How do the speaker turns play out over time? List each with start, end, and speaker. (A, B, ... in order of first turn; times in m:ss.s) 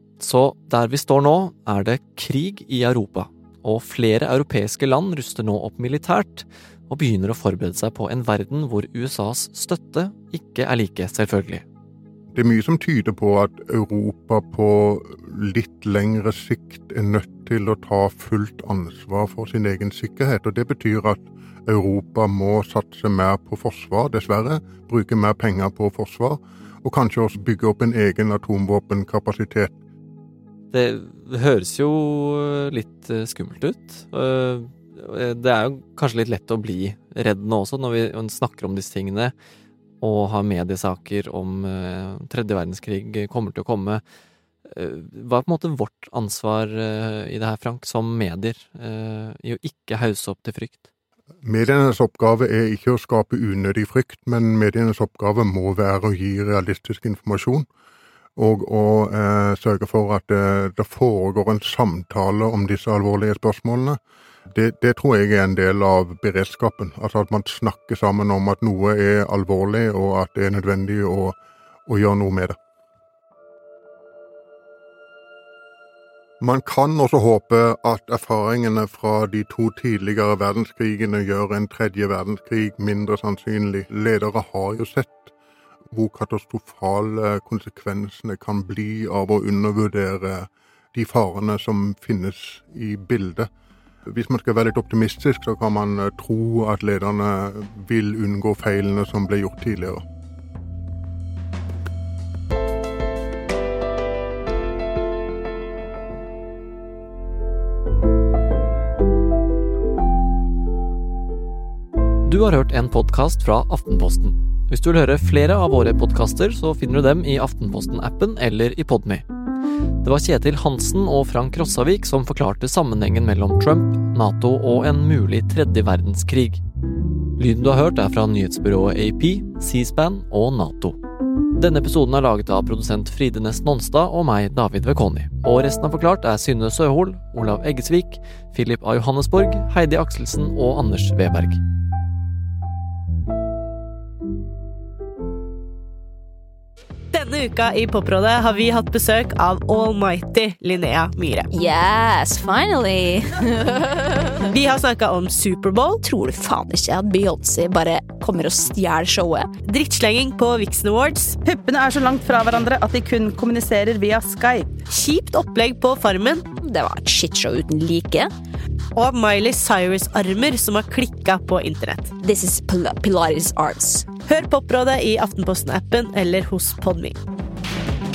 0:00.2-0:11.6 A
0:12.3-0:29.7 B
0:30.7-0:39.3 A
0:40.0-0:44.0 A
0:44.7-0:50.8 A
0:51.4-0:57.7 B
0:58.4-1:04.0 B
1:04.5-1:12.6 B
1:16.4-1:25.3 B
1:25.9-1:33.5 B
1:34.1-1:40.0 B
1:52.2-1:59.2 A
2:00.0-2:06.6 A
2:07.4-2:11.0 A
2:11.6-2:21.6 A
2:27.1-2:31.5 C
2:31.5-2:33.8 D
2:34.5-2:36.0 C
2:36.0-2:39.5 D
2:39.6-2:41.4 C
2:41.4-2:44.8 E
2:44.8-2:46.5 C
2:46.6-2:48.3 D
2:48.9-2:52.1 C
2:52.2-2:54.1 D
2:54.1-2:57.2 C